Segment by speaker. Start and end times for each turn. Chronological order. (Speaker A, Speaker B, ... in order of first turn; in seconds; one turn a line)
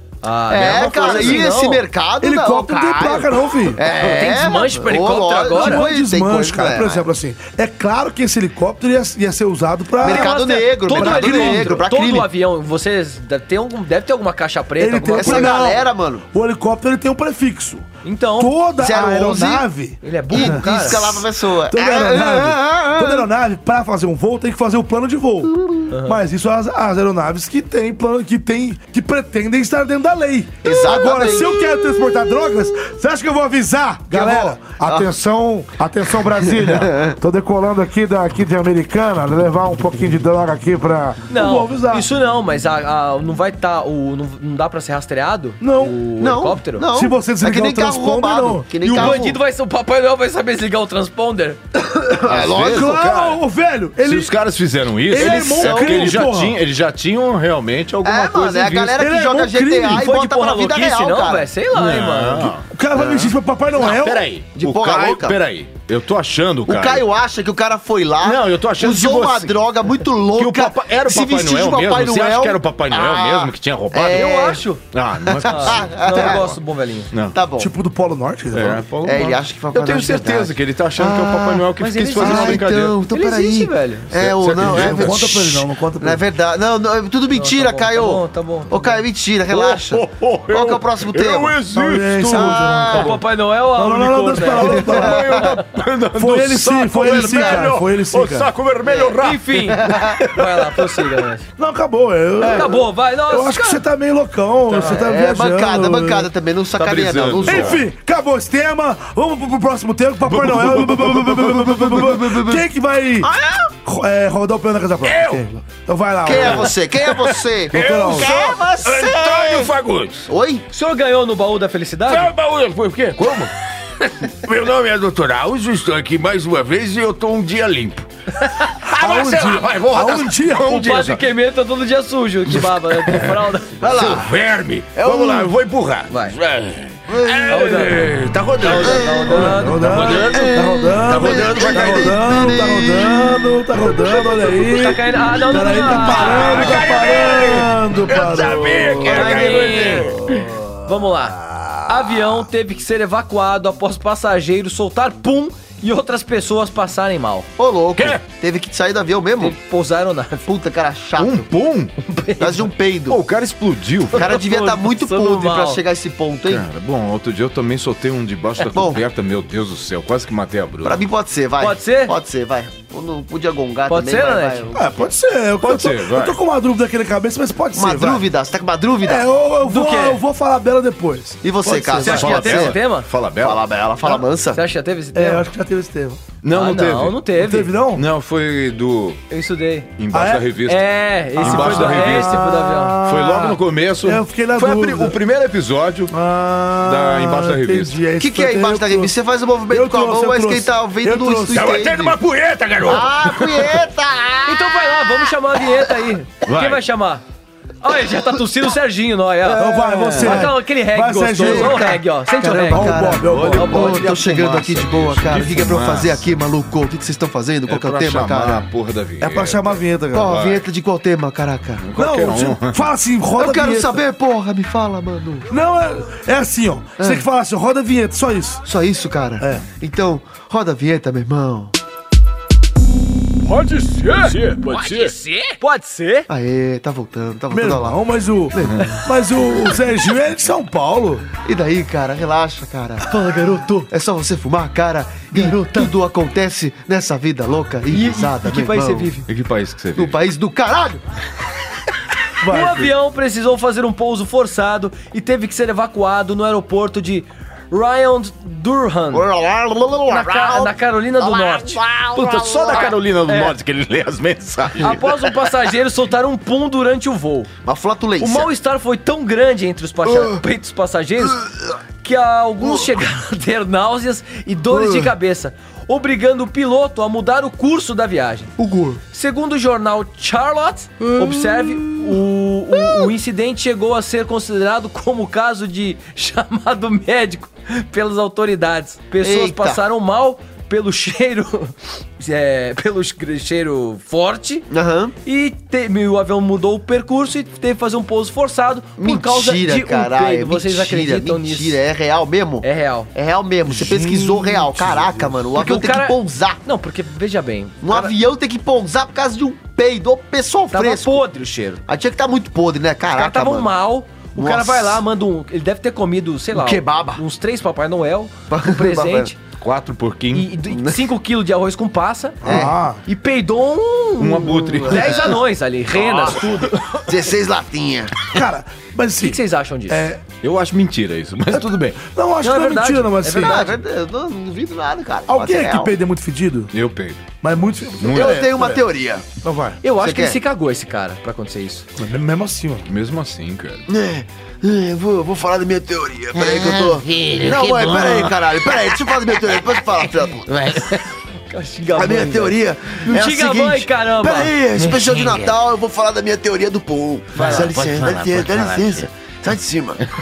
Speaker A: 0.2-1.9
Speaker B: 0.5-7.1
Speaker C: 1.0-1.4
Speaker C: 2.2-3.8
Speaker A: 3.9-5.8
Speaker C: 5.5-11.8
Speaker B: 10.0-12.3
Speaker A: 10.0-15.5
Speaker C: 14.8-42.1
Speaker B: 15.2-16.2
Speaker A: 18.0-18.5
Speaker B: 18.8-19.7
Speaker A: 20.0-21.2
Speaker B: 20.3-23.3
Speaker B: 25.5-25.9
Speaker A: 25.9-26.2
Speaker B: 30.6-31.8
Speaker B: 34.1-35.1
Speaker B: 36.5-37.2
Speaker A: 41.3-46.9
Speaker C: 45.6-46.0
Speaker B: 46.2-49.4
Speaker C: 46.9-49.2
Speaker A: 48.8-51.6
Speaker B: 51.9-53.0
Speaker D: 52.3-53.4
Speaker C: 52.6-54.3
Speaker D: 54.0-58.9
Speaker C: 55.1-56.6
Speaker A: 55.2-56.0
Speaker B: 55.5-55.9
Speaker B: 58.0-61.5
Speaker C: 58.7-60.1
Speaker A: 59.9-62.5
Speaker D: 61.7-62.6
Speaker C: 62.4-64.3
Speaker B: 63.0-64.0
Speaker D: 63.8-67.1
Speaker B: 64.5-65.4
Speaker B: 66.7-74.6
Speaker D: 68.2-69.6
Speaker D: 70.4-76.6
Speaker A: 74.1-74.8
Speaker B: 75.3-76.5
Speaker A: 75.5-77.1
Speaker D: 77.1-77.4
Speaker B: 77.3-77.7
Speaker C: 77.6-78.9
Speaker D: 78.5-83.0
Speaker B: 79.0-91.5
Speaker A: 81.8-84.1
Speaker D: 84.1-85.3
Speaker C: 84.6-86.2
Speaker A: 87.3-89.0
Speaker D: 89.5-92.5
Speaker C: 91.7-93.2
Speaker B: 92.2-93.2
Speaker A: 92.9-95.0
Speaker C: 93.7-95.4
Speaker D: 94.4-101.2
Speaker C: 96.2-98.5
Speaker B: 97.1-97.7
Speaker B: 98.9-99.1
Speaker A: 99.2-101.5
Speaker B: 99.7-100.2
Speaker C: 101.6-106.3
Speaker B: 102.4-102.7
Speaker A: 102.5-103.8
Speaker B: 104.7-107.8
Speaker A: 104.8-105.1
Speaker D: 106.8-107.8
Speaker C: 107.5-113.3
Speaker D: 110.3-111.4
Speaker B: 111.2-112.7
Speaker B: 113.2-113.7
Speaker C: 113.8-116.7
Speaker D: 115.0-115.4
Speaker B: 116.2-119.7
Speaker D: 116.3-120.3
Speaker C: 117.7-118.4
Speaker B: 120.3-120.7
Speaker A: 120.7-122.3
Speaker D: 122.1-131.2
Speaker C: 128.8-131.0
Speaker A: 130.8-134.0
Speaker D: 132.5-142.2
Speaker B: 133.8-134.3
Speaker B: 134.9-135.5
Speaker A: 136.1-136.3
Speaker B: 137.1-137.8
Speaker A: 137.5-138.0
Speaker A: 138.6-140.3
Speaker B: 138.7-139.2
Speaker C: 139.3-149.3
Speaker B: 140.3-143.4
Speaker A: 144.7-146.9
Speaker D: 145.9-150.4
Speaker B: 149.0-150.1
Speaker A: 149.1-150.1
Speaker C: 150.1-150.4
Speaker A: 150.9-151.4
Speaker A: 151.9-157.5
Speaker B: 157.6-159.6
Speaker D: 158.0-158.2
Speaker A: 159.4-160.5
Speaker B: 160.5-161.5
Speaker D: 161.2-162.0
Speaker A: 162.0-162.7
Speaker B: 162.4-163.2
Speaker D: 163.1-164.3
Speaker B: 164.1-166.6
Speaker A: 164.2-165.8
Speaker D: 166.5-171.0
Speaker B: 168.7-169.0
Speaker B: 170.8-175.1
Speaker A: 171.6-172.1
Speaker A: 173.9-174.7
Speaker C: 174.7-178.3
Speaker D: 175.6-176.4
Speaker B: 177.8-179.3
Speaker C: 179.0-182.3
Speaker A: 179.6-180.2
Speaker B: 181.4-182.8
Speaker A: 182.0-183.1
Speaker D: 182.2-183.7
Speaker B: 183.4-184.6
Speaker A: 184.0-185.4
Speaker C: 185.1-186.2
Speaker D: 186.4-187.2
Speaker A: 186.5-187.8
Speaker C: 187.4-188.1
Speaker D: 187.9-189.2
Speaker A: 189.3-189.9
Speaker D: 190.0-192.5
Speaker C: 190.1-190.5
Speaker A: 190.7-193.0
Speaker C: 191.4-195.2
Speaker D: 193.0-196.1
Speaker C: 196.1-199.1
Speaker D: 196.8-198.0
Speaker B: 198.2-202.2
Speaker C: 199.7-201.8
Speaker D: 201.5-203.8
Speaker B: 202.8-204.8
Speaker A: 204.5-207.2
Speaker D: 206.4-206.9
Speaker A: 207.8-214.1
Speaker C: 209.5-211.9
Speaker D: 209.9-210.5
Speaker B: 211.4-218.7
Speaker C: 212.4-213.8
Speaker D: 213.2-216.3
Speaker D: 217.7-220.7
Speaker C: 219.2-220.3
Speaker B: 220.1-221.8
Speaker D: 221.8-222.8
Speaker C: 222.0-224.0
Speaker B: 223.4-225.5
Speaker C: 225.5-228.7
Speaker B: 227.0-227.3
Speaker B: 228.7-231.7
Speaker C: 229.4-229.7
Speaker D: 233.5-235.2
Speaker A: 233.9-236.3
Speaker B: 236.3-238.0
Speaker C: 237.5-241.2
Speaker B: 238.5-239.0
Speaker D: 238.6-239.0
Speaker B: 241.4-243.1
Speaker A: 243.0-243.9
Speaker B: 243.9-249.2
Speaker C: 245.3-245.8
Speaker A: 247.9-249.3
Speaker D: 249.3-250.2
Speaker B: 250.0-251.0
Speaker C: 252.4-252.9
Speaker A: 252.4-259.3
Speaker B: 259.1-262.9
Speaker A: 260.1-261.8
Speaker D: 262.1-265.5
Speaker A: 263.3-263.6
Speaker A: 264.8-267.5
Speaker B: 267.6-268.5
Speaker A: 268.2-271.4
Speaker B: 270.0-270.4
Speaker B: 271.4-271.7
Speaker A: 272.0-278.5
Speaker B: 272.6-273.0
Speaker B: 274.7-275.1
Speaker B: 278.6-279.0
Speaker A: 279.0-294.7
Speaker B: 281.1-282.1
Speaker B: 289.2-289.8
Speaker B: 294.7-295.1
Speaker A: 295.2-301.8
Speaker B: 299.0-306.6
Speaker A: 302.6-303.1
Speaker C: 303.7-305.5
Speaker A: 305.5-308.2
Speaker B: 307.8-311.3
Speaker A: 310.7-311.8
Speaker B: 311.9-313.7
Speaker A: 313.1-319.4
Speaker B: 314.4-315.0
Speaker B: 316.5-317.2
Speaker B: 318.5-319.3
Speaker D: 319.6-320.6
Speaker A: 320.3-327.0
Speaker B: 320.7-321.0
Speaker C: 322.4-323.0
Speaker B: 322.4-322.8
Speaker D: 324.2-325.4
Speaker D: 325.9-326.7
Speaker B: 327.1-328.1
Speaker C: 328.3-330.2
Speaker A: 329.2-330.1
Speaker D: 330.4-332.0
Speaker C: 332.0-333.5
Speaker A: 332.4-333.8
Speaker B: 333.4-335.9
Speaker C: 335.3-336.7
Speaker D: 336.7-337.4
Speaker C: 337.4-338.8
Speaker D: 338.0-338.4
Speaker B: 338.1-339.2
Speaker C: 339.4-339.8
Speaker A: 339.8-341.9
Speaker B: 339.9-340.4
Speaker C: 342.0-342.9
Speaker D: 342.9-343.9
Speaker B: 343.9-350.5
Speaker E: 346.4-349.6
Speaker E: 350.3-351.1
Speaker A: 351.5-354.6
Speaker B: 351.9-360.0
Speaker E: 354.8-355.6
Speaker A: 357.4-357.7
Speaker E: 357.4-359.1